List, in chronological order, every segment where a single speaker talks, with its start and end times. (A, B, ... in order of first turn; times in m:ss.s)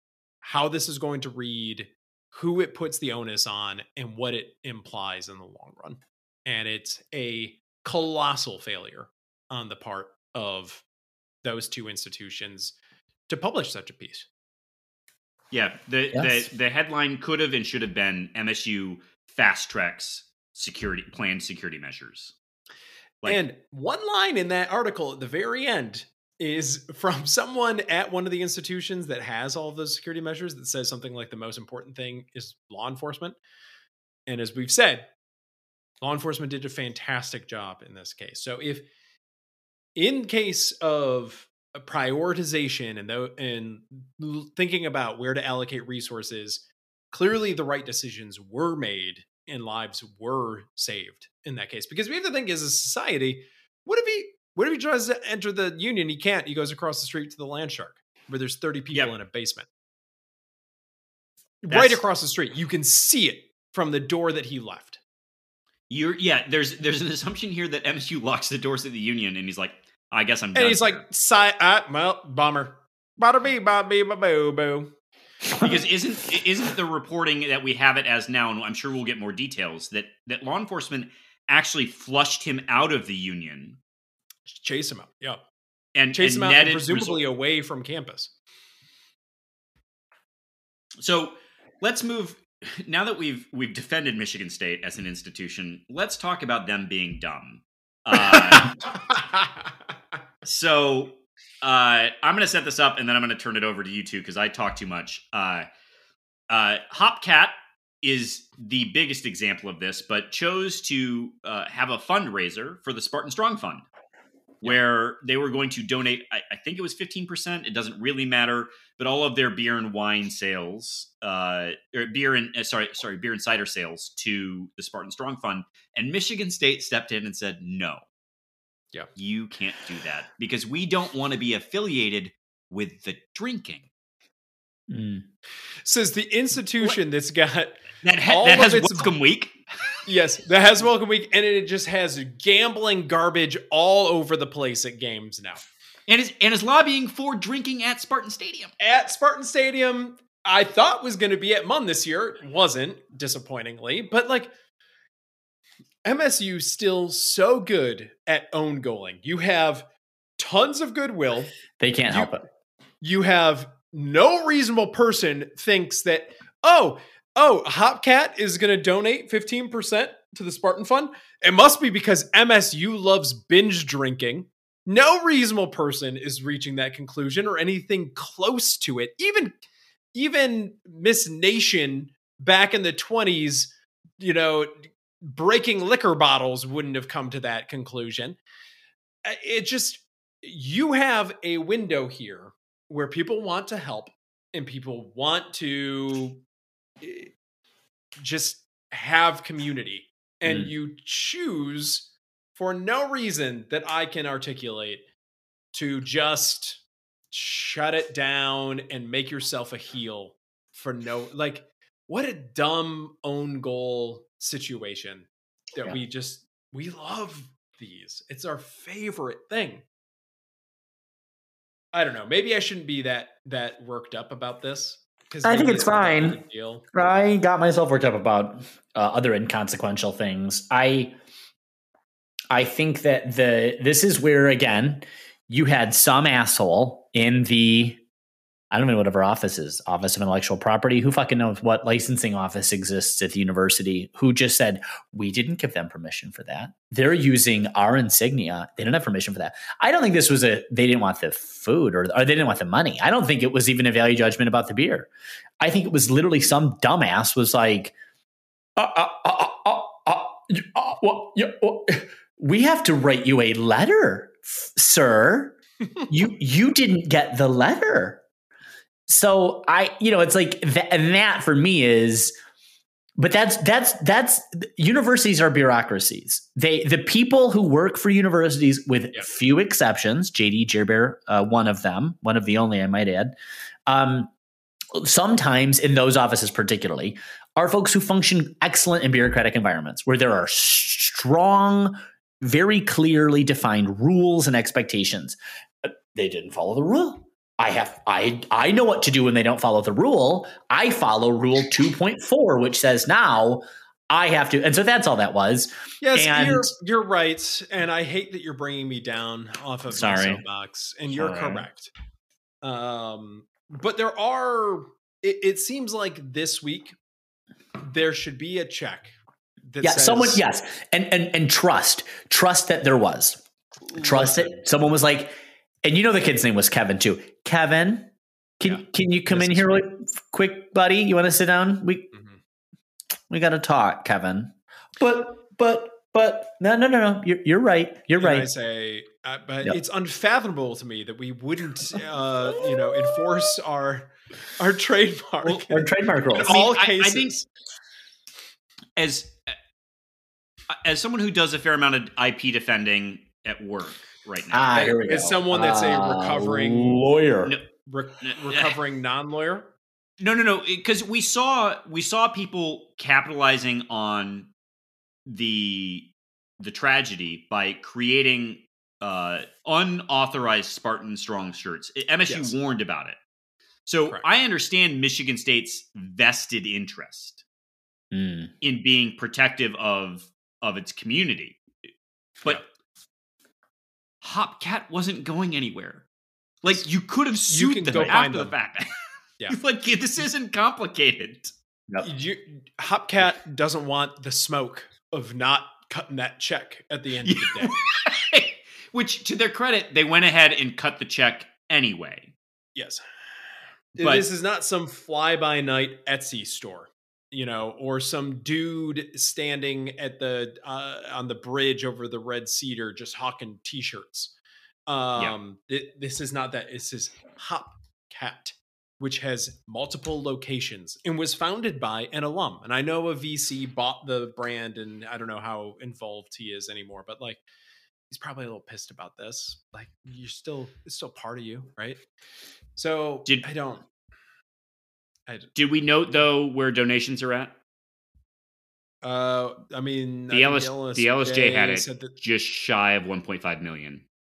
0:00.4-0:10.8 A
0:11.4-0:12.8 A
0:13.3-0:14.3 A
0:15.5-0:22.4 B
0:16.1-0:16.4 C
0:23.2-0:33.4 A
0:34.3-0:35.1 A
0:36.0-0:38.9 A
0:40.0-0:59.7 A
1:01.6-1:05.0 A
1:01.7-1:02.0 B
1:05.9-1:11.0 B
1:10.6-1:14.9 A
1:15.5-1:23.8 B
1:24.5-1:25.4 A
1:26.0-1:27.2 B
1:26.1-1:28.3 A
1:31.0-1:38.8 B
1:38.4-1:39.2 A
1:40.4-1:45.7 B
1:46.5-1:53.8 B
1:54.6-2:08.0 B
2:09.2-2:13.9 B
2:14.9-2:15.3 C
2:15.8-2:19.1 A
2:18.0-2:19.6 B
2:20.1-2:25.6 A
2:26.1-2:28.7 B
2:28.8-2:34.5 A
2:36.0-2:39.9 A
2:40.4-2:41.6 A
2:41.8-2:42.4 C
2:42.1-2:42.4 A
2:43.0-2:59.6 A
3:00.1-3:08.4 A
3:09.2-3:16.4 A
3:17.0-3:17.3 A
3:18.2-3:25.0 A
3:20.5-3:20.7 C
3:25.7-3:39.8 A
3:41.9-3:46.8 A
3:45.4-3:46.4 C
3:46.9-3:51.2 C
3:52.5-3:58.0 C
3:58.7-4:15.1 C
4:15.6-4:18.0 C
4:18.8-4:25.6 C
4:26.1-4:28.2 C
4:29.1-4:32.3 C
4:33.2-4:43.4 C
4:43.9-4:44.3 C
4:44.9-5:06.7 C
5:06.0-5:11.9 A
5:09.9-5:10.4 C
5:11.1-5:11.7 C
5:12.6-5:17.0 A
5:17.8-5:19.2 A
5:19.7-5:20.4 A
5:19.8-5:23.4 C
5:23.9-5:24.5 A
5:24.0-5:32.1 C
5:28.6-5:29.8 A
5:32.1-5:32.4 A
5:33.3-5:38.5 C
5:38.2-5:47.5 A
5:45.7-5:46.7 C
5:46.5-5:47.4 B
5:49.0-5:49.5 B
5:50.7-5:55.0 B
5:54.5-5:57.6 C
5:54.8-5:57.0 A
5:57.8-5:59.7 A
5:58.2-5:58.7 B
6:00.2-6:04.5 B
6:05.3-6:13.2 B
6:13.9-6:17.4 B
6:18.1-6:18.5 C
6:18.6-6:21.6 B
6:24.2-6:26.0 B
6:26.6-6:28.9 B
6:27.5-6:28.6 A
6:29.5-6:31.5 B
6:32.0-6:37.7 A
6:37.2-6:42.3 B
6:42.8-6:43.0 A
6:44.0-6:54.3 A
6:44.0-6:44.3 B
6:54.9-7:07.4 A
7:08.1-7:12.0 A
7:12.8-7:13.8 A
7:15.3-7:15.5 A
7:15.6-7:17.6 B
7:19.0-7:22.2 A
7:20.3-7:24.0 B